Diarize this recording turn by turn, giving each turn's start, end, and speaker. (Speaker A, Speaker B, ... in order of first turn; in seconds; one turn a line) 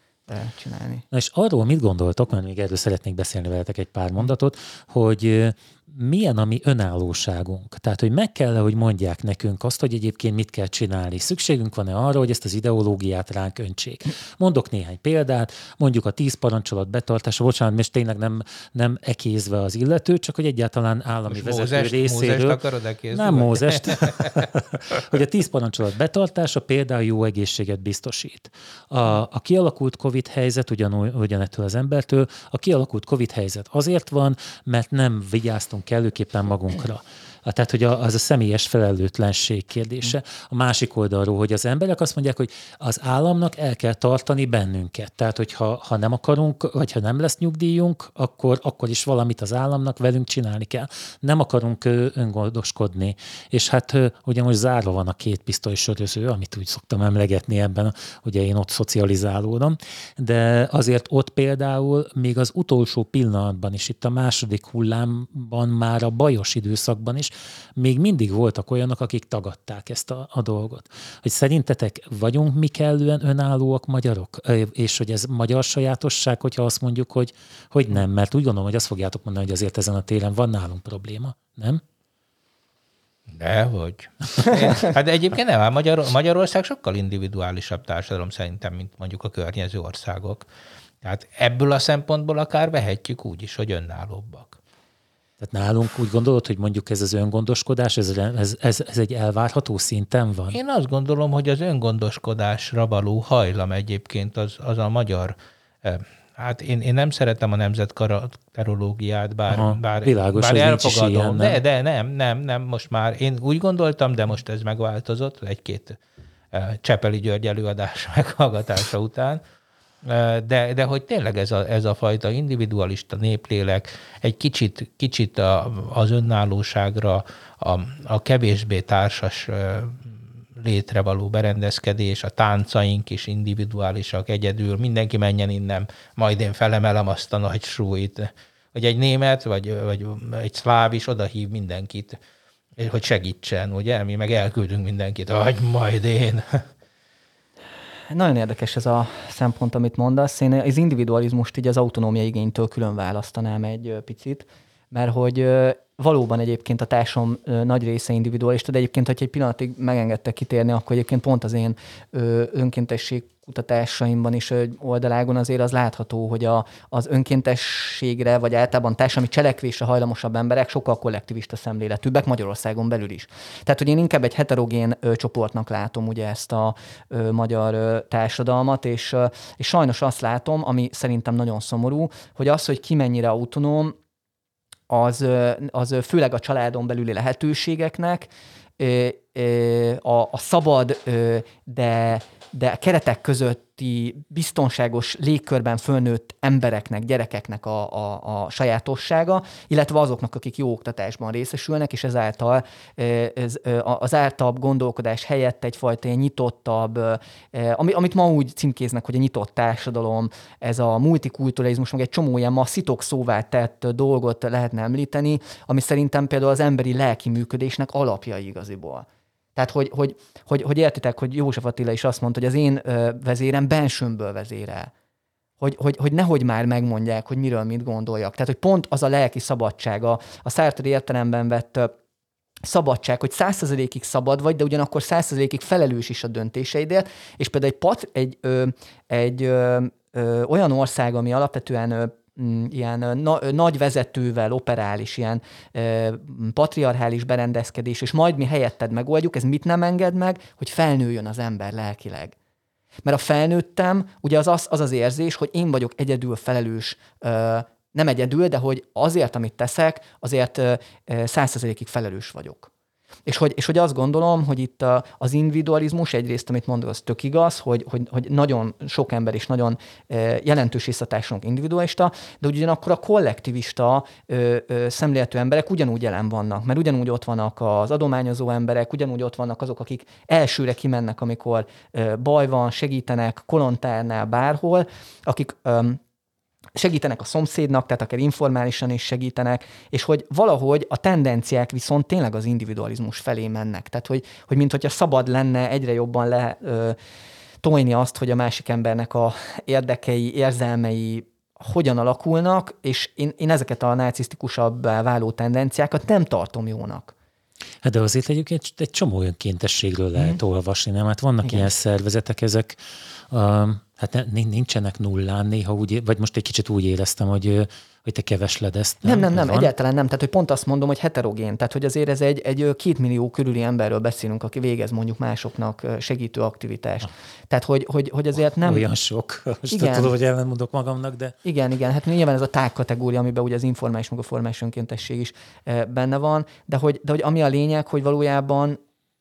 Speaker A: 0.3-1.0
Speaker B: 1.1-22.6
Speaker C: 21.3-24.4
Speaker B: 23.1-81.8
Speaker C: 83.3-90.5
Speaker C: 91.0-94.6
Speaker B: 95.4-100.6
Speaker C: 100.5-116.0
Speaker B: 109.5-111.6
Speaker C: 116.5-119.4
Speaker C: 120.0-142.2
Speaker C: 142.8-146.7
Speaker A: 148.1-183.9
Speaker A: 184.9-224.9
Speaker A: 225.6-231.9
Speaker A: 232.6-252.3
Speaker A: 253.0-262.7
Speaker A: 263.2-286.0
Speaker A: 286.8-297.0
Speaker A: 297.6-307.1
Speaker B: 307.8-312.8
Speaker A: 311.4-311.7
Speaker B: 313.3-319.7
Speaker A: 319.0-328.8
Speaker B: 328.6-331.3
Speaker A: 329.7-330.1
Speaker A: 331.4-338.8